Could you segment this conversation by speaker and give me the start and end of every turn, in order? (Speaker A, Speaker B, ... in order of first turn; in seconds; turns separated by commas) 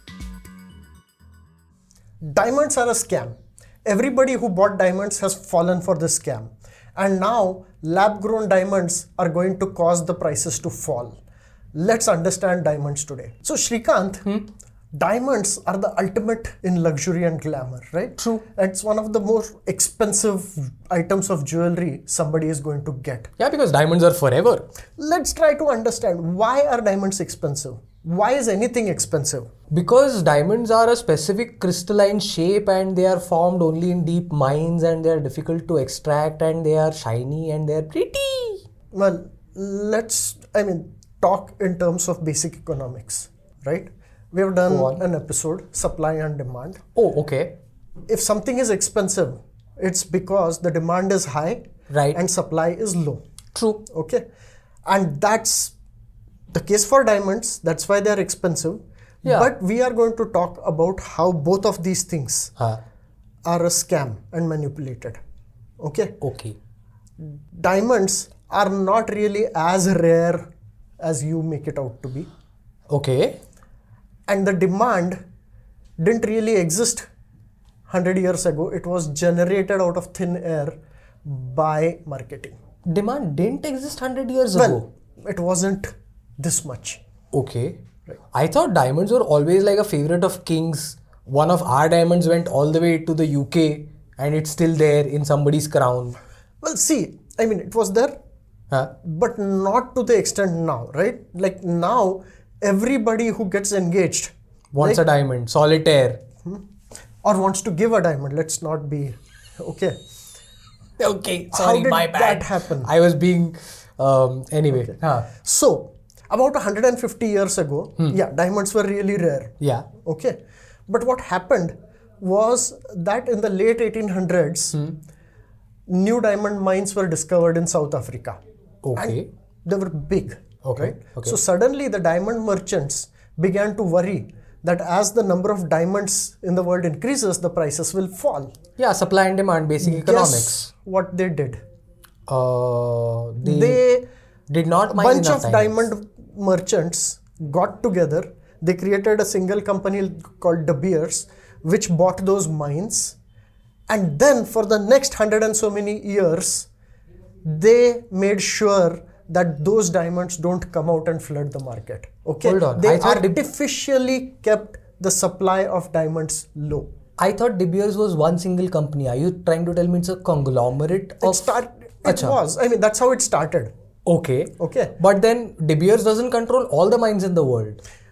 Speaker A: 2.2-11.2, Speaker A: 11.7-14.2, Speaker A: 14.9-23.3, Speaker B: 18.2-18.4, Speaker B: 23.4-24.7, Speaker A: 25.0-29.5, Speaker B: 29.7-38.6, Speaker A: 38.9-46.8, Speaker B: 44.7-45.0, Speaker B: 47.0-47.6, Speaker A: 48.1-51.6, Speaker B: 51.9-52.2, Speaker A: 52.1-53.2, Speaker B: 53.5-53.8, Speaker A: 53.9-54.2, Speaker A: 54.9-55.7, Speaker A: 56.5-62.5, Speaker B: 59.2-59.5, Speaker A: 63.5-65.2, Speaker A: 65.8-66.2, Speaker B: 66.2-66.6, Speaker A: 67.2-70.5, Speaker A: 71.0-72.3, Speaker B: 72.9-73.4, Speaker A: 74.3-75.2, Speaker A: 76.0-77.0, Speaker A: 77.9-82.5, Speaker B: 82.9-84.9, Speaker A: 84.5-87.0, Speaker B: 87.3-87.8, Speaker B: 88.3-96.2, Speaker A: 96.6-98.1, Speaker A: 99.0-105.0, Speaker B: 104.7-106.2, Speaker A: 107.2-110.0, Speaker B: 111.0-115.3, Speaker A: 111.5-112.9, Speaker A: 114.7-119.5, Speaker B: 119.6-119.8, Speaker A: 120.0-120.4, Speaker A: 120.9-124.8, Speaker B: 124.7-125.0, Speaker A: 125.9-128.4, Speaker B: 128.8-129.2, Speaker A: 128.9-138.5, Speaker B: 130.6-131.4, Speaker B: 138.8-140.7, Speaker A: 139.8-141.6, Speaker B: 142.3-143.8, Speaker A: 143.4-144.1, Speaker B: 144.5-145.9, Speaker A: 144.9-153.2, Speaker A: 153.9-156.7, Speaker A: 157.4-166.9, Speaker B: 162.4-163.4, Speaker B: 167.2-172.4, Speaker A: 171.2-173.7, Speaker B: 174.1-177.8, Speaker A: 174.6-174.9